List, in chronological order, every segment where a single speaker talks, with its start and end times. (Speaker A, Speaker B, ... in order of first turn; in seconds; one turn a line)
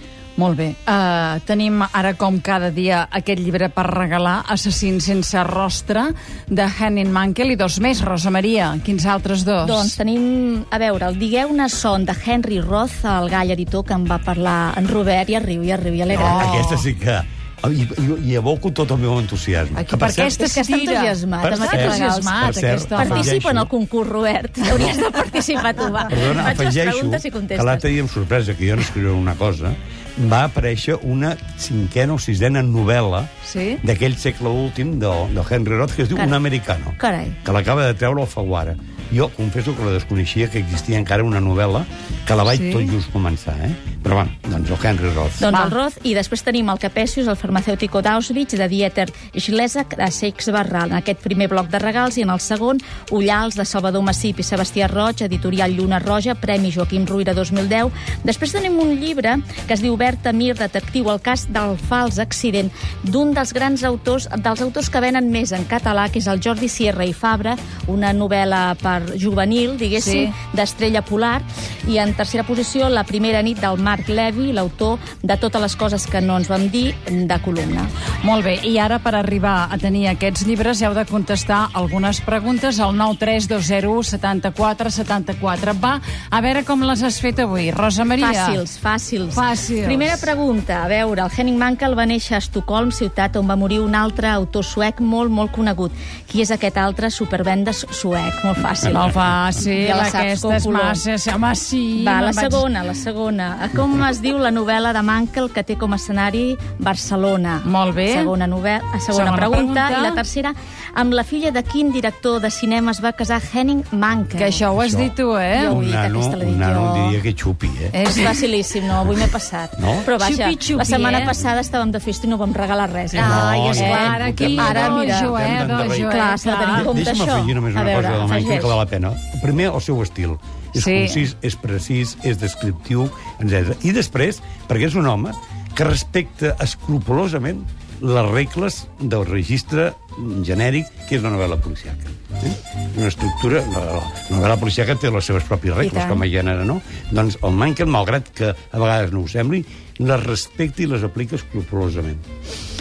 Speaker A: 0.4-10.0
Speaker B: 9.6-16.7
Speaker C: 16.1-20.4
Speaker A: 16.3-16.9
Speaker A: 19.8-23.3
Speaker B: 20.4-27.9
Speaker C: 21.4-23.7
Speaker C: 26.1-33.3
Speaker A: 33.5-33.8
Speaker C: 33.8-45.5
Speaker B: 37.0-37.4
Speaker A: 42.5-43.0
Speaker B: 45.4-77.9
Speaker A: 70.0-70.4
Speaker A: 78.2-88.6
Speaker B: 88.2-101.0
Speaker A: 89.3-90.3
Speaker A: 98.9-102.7
Speaker B: 102.0-114.7
Speaker A: 107.6-108.3
Speaker A: 109.1-110.2
Speaker A: 114.3-115.8
Speaker C: 114.8-115.1
Speaker B: 115.5-117.2
Speaker C: 115.7-117.9
Speaker A: 117.9-118.5
Speaker B: 118.1-128.8
Speaker C: 119.8-120.1
Speaker A: 120.2-121.3
Speaker C: 123.1-126.1
Speaker A: 123.2-127.0
Speaker C: 126.8-152.2
Speaker A: 130.8-131.2
Speaker B: 145.8-146.2